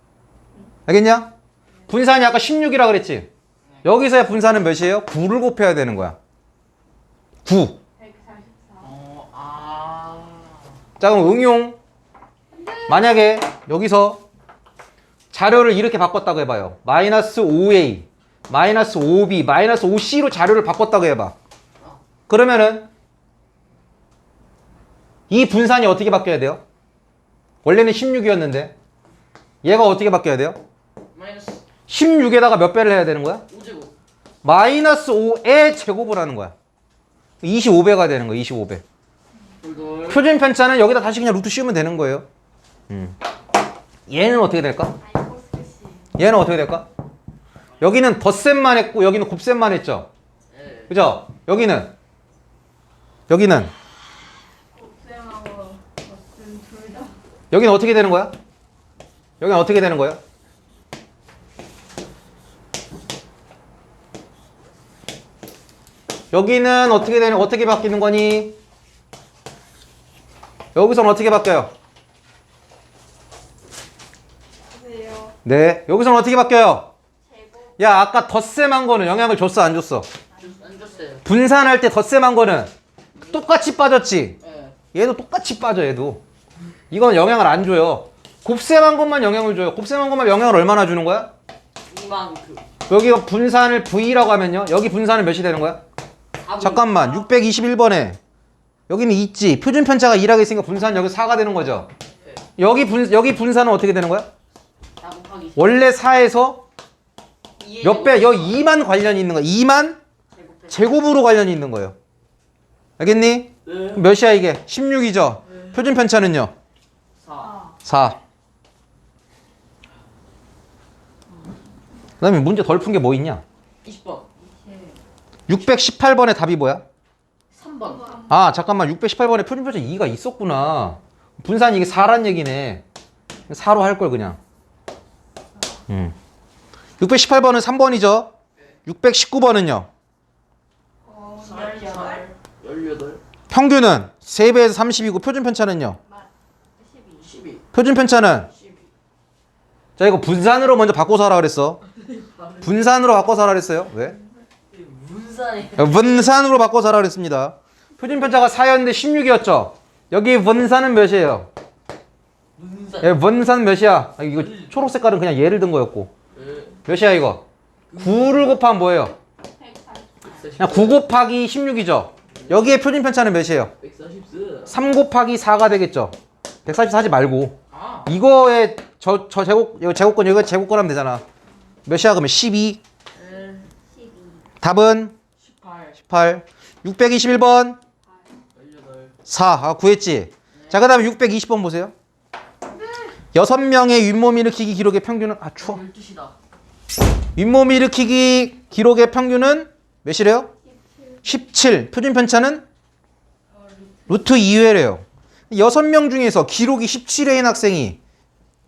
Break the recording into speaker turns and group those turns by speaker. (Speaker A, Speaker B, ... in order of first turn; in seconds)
Speaker A: 0.9-1.3, 1.9-3.3, 3.8-6.2, 7.5-7.8, 11.0-11.8, 12.9-14.2, 15.3-21.4, 22.3-22.9, 25.3-26.6, 27.6-28.7, 29.6-30.6, 31.9-33.4, 34.4-36.5, 37.4-38.8, 40.1-42.2, 42.9-43.1, 44.1-45.0, 46.2-46.9, 47.8-50.1, 50.9-52.0, 53.3-53.7, 57.5-58.4, 59.4-60.2, 66.3-68.6, 70.8-71.7, 75.5-76.9, 77.8-80.1, 81.2-82.7, 83.3-84.4, 84.9-86.2, 86.9-91.3, 92.9-95.8, 96.6-98.2, 98.9-101.9, 102.6-104.3, 105.6-106.6, 107.8-110.0, 110.7-111.9, 113.0-116.5, 117.8-118.2, 122.2-123.4, 125.5-126.8, 128.3-132.8, 133.5-134.4, 135.9-136.1, 137.0-138.3, 138.9-139.9, 143.5-146.0, 147.7-148.5, 150.0-151.8, 152.6-154.2, 155.8-161.5, 163.0-166.1, 166.8-167.4, 168.0-169.1, 170.6-173.7, 174.7-181.2, 181.9-182.8, 184.6-185.1, 186.0-187.8, 189.3-191.9, 193.3-195.8, 197.4-200.5, 201.2-202.6, 204.1-208.0
Speaker B: 8.0-8.9, 12.5-13.0, 45.0-46.1, 54.7-57.1, 74.7-75.3, 77.2-77.8, 80.4-80.8, 117.4-117.8, 124.4-125.0, 127.9-128.4, 141.0-142.3, 146.1-147.3, 169.6-170.5, 183.8-184.4, 200.6-201.2, 203.5-204.2
Speaker C: 8.8-10.7, 31.1-31.6, 33.5-33.9, 39.6-40.2, 50.5-50.9, 80.4-81.2, 83.2-83.4, 84.4-84.8, 91.9-92.6, 96.4-97.2, 105.0-105.8, 107.6-108.6, 110.3-110.9, 113.7-114.0, 117.2-117.6, 123.8-124.3, 127.5-128.2, 141.4-143.2, 147.2-147.6, 148.5-148.9, 152.0-152.8, 154.7-156.2, 162.6-163.2, 164.4-164.8, 166.3-166.8, 167.9-168.5, 170.2-171.0, 172.3-172.6, 173.8-174.7, 177.7-178.1, 183.1-183.7, 185.4-186.0, 188.6-189.1, 190.5-191.0, 195.6-196.3